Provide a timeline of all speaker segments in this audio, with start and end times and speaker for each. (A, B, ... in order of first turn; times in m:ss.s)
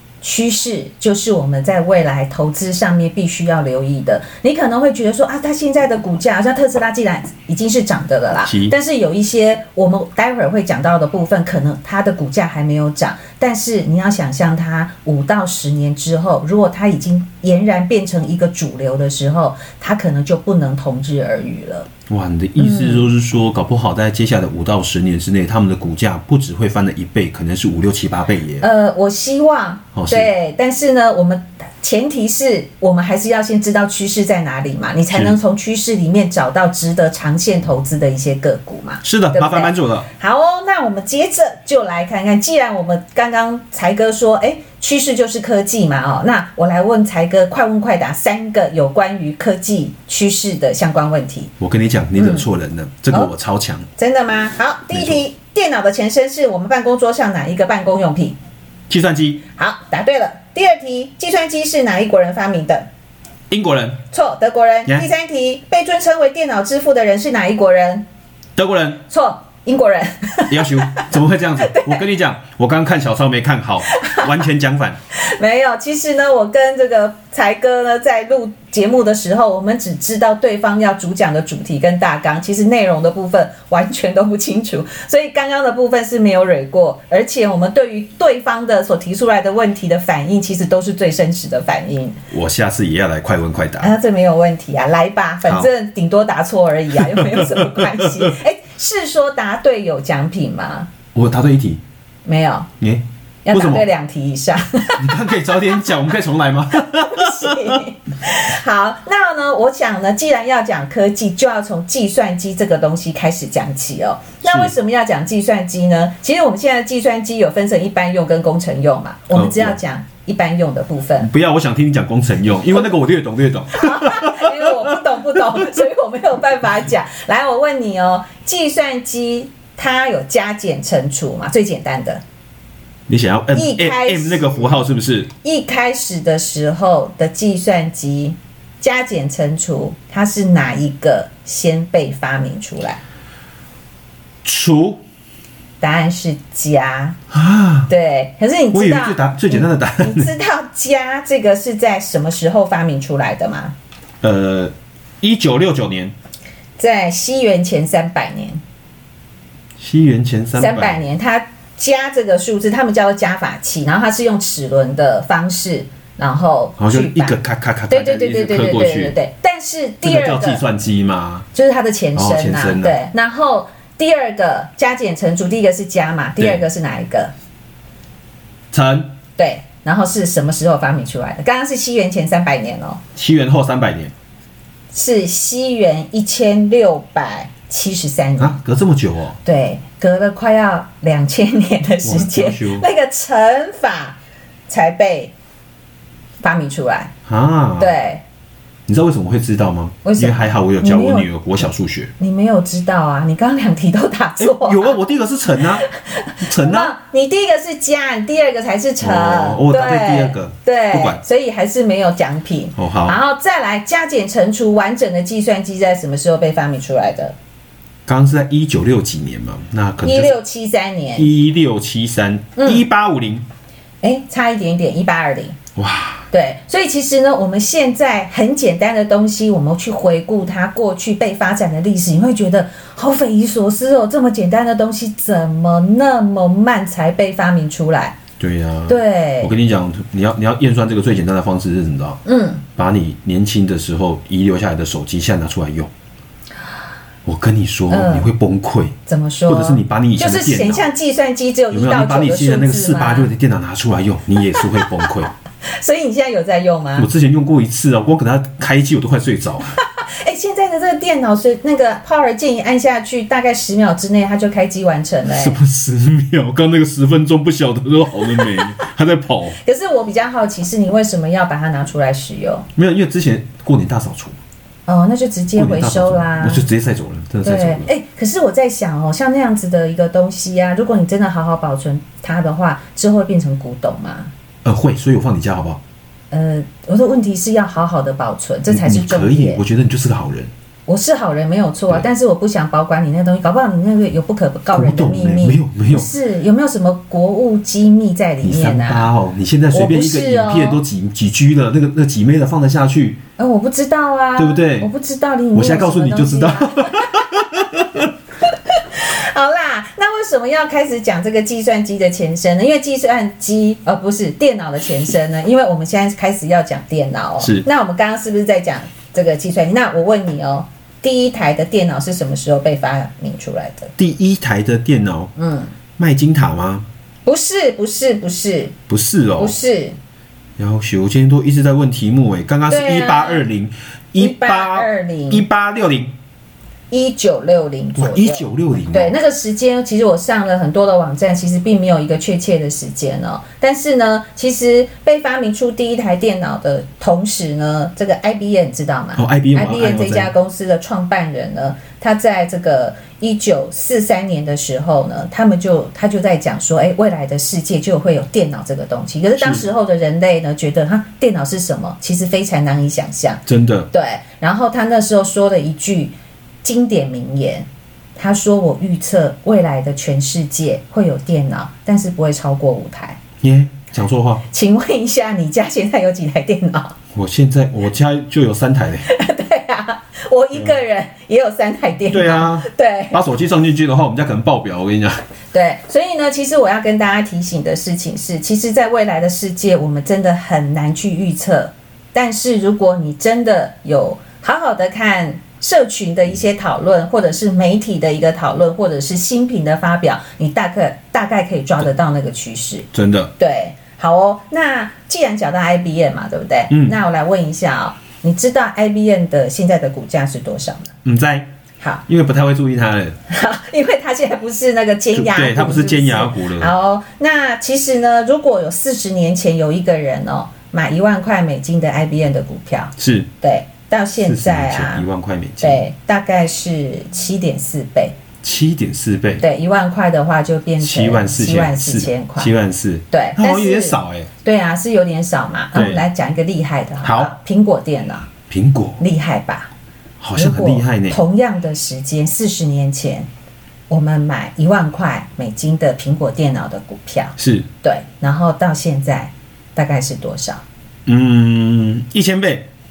0:00.2-0:21.9 A
0:08.4-0:08.8 B
0:22.1-0:28.6 B
0:22.6-0:23.1 A
0:28.6-0:51.5 A
0:29.9-0:30.3 B
0:35.1-0:35.4 B
0:39.0-0:40.1 B
0:51.6-0:53.9 B
0:52.2-0:52.4 A
0:54.0-0:58.4 A
0:54.9-0:55.2 B
0:58.9-0:59.4 B
0:59.6-1:02.8 A
1:03.5-1:04.0 B
1:04.1-1:08.1 A
1:08.6-1:09.0 B
1:09.1-1:12.0 A
1:10.5-1:15.0 B
1:13.9-1:14.3 A
1:15.1-1:32.2 A
1:32.3-1:33.9 B
1:33.8-1:40.9 A
1:36.9-1:38.3 B
1:41.1-1:41.8 B
1:42.2-1:42.7 A
1:42.8-1:43.8 B
1:43.4-1:45.8 A
1:45.0-1:47.8 B
1:46.8-2:01.3 A
1:54.4-1:54.7 B
1:59.3-1:59.8 B
2:01.2-2:05.8 B
2:03.7-2:12.2 A
2:13.1-2:15.3 B
2:13.5-2:14.8 A
2:15.4-2:23.0 A
2:24.4-2:25.0 B
2:25.8-2:27.2 A
2:27.3-2:27.9 B
2:27.9-2:33.7 A
2:28.7-2:30.3 B
2:34.2-2:36.1 B
2:36.8-2:38.6 A
2:39.8-2:41.0 B
2:40.6-2:50.6 A
2:46.8-2:49.2 B
2:50.0-2:51.5 B
2:51.5-2:57.3 A
2:52.1-2:53.0 B
2:56.4-2:56.6 B
2:58.7-2:59.1 B
2:59.4-3:03.0 A
3:03.2-3:04.1 B
3:04.9-3:08.6 A
3:08.4-3:09.4 B
3:09.4-3:14.2 A
3:12.0-3:12.8 B
3:14.7-3:15.3 A
3:16.4-3:17.1 A
3:17.2-3:17.9 B
3:17.8-3:18.2 A
3:18.9-3:22.1 B
3:20.0-3:21.3 A
3:22.2-3:25.0 A
3:24.4-3:25.8 B
3:25.8-3:37.3 A
3:26.4-3:26.9 B
3:29.0-3:31.2 B
3:32.8-3:33.2 B
3:38.0-3:40.3 B
3:40.0-3:41.3 A
3:41.1-3:43.4 B
3:42.6-3:42.8 A
3:44.0-3:45.6 A
3:45.8-3:46.2 B
3:46.3-3:58.2 A
3:58.4-4:02.2 B
3:58.9-3:59.5 A
4:02.2-4:02.6 A
4:02.8-4:05.9 B
4:07.2-4:09.0 B
4:07.9-4:08.3 A
4:09.1-4:13.3 A
4:09.5-4:10.9 B
4:11.7-4:15.3 B
4:14.5-4:15.1 A
4:15.6-4:17.1 A
4:17.0-4:19.8 B
4:20.0-4:25.6 A
4:25.3-4:29.6 B
4:29.6-4:32.6 A
4:32.8-4:34.4 B
4:34.9-4:36.7 A
4:35.6-4:37.9 B
4:37.4-4:44.3 A
4:44.6-4:45.8 B
4:46.3-4:49.6 A
4:48.7-4:50.5 B
4:50.9-4:59.1 A
4:54.7-4:56.1 B
4:58.4-5:03.2 B
4:59.7-5:00.8 A
5:03.4-5:07.3 A
5:04.4-5:04.9 B
5:05.5-5:08.1 B
5:08.5-5:23.9 A
5:17.4-5:17.6 B
5:24.0-5:25.3 B
5:25.4-5:25.7 A
5:26.0-5:26.8 B
5:27.2-5:28.8 A
5:28.9-5:29.6 B
5:29.4-5:30.0 A
5:30.6-5:36.1 B
5:32.7-5:33.4 A
5:34.2-5:35.4 A
5:36.9-6:06.1 A
5:38.0-5:39.1 B
5:49.2-5:50.3 B
5:59.4-5:59.6 B
6:03.4-6:03.9 B
6:06.6-6:13.2 A
6:13.4-6:14.4 B
6:14.5-6:17.0 A
6:17.1-6:19.1 B
6:19.0-6:23.2 A
6:22.1-6:25.2 B
6:25.5-6:50.9 A
6:42.9-6:43.3 B
6:46.7-6:47.0 B
6:51.0-6:51.5 B
6:52.1-6:53.2 B
6:53.3-7:05.0 A
6:55.1-6:56.7 B
7:03.0-7:03.3 B
7:04.2-7:05.8 B
7:05.6-7:08.1 A
7:08.4-7:09.4 B
7:09.4-7:12.5 A
7:10.8-7:14.3 B
7:13.1-7:18.3 A
7:15.7-7:16.0 B
7:17.0-7:17.3 B
7:18.5-7:19.0 B
7:19.0-7:19.7 A
7:20.2-7:21.2 B
7:20.3-7:23.3 A
7:23.9-7:30.6 A
7:27.4-7:27.7 B
7:31.0-7:32.7 B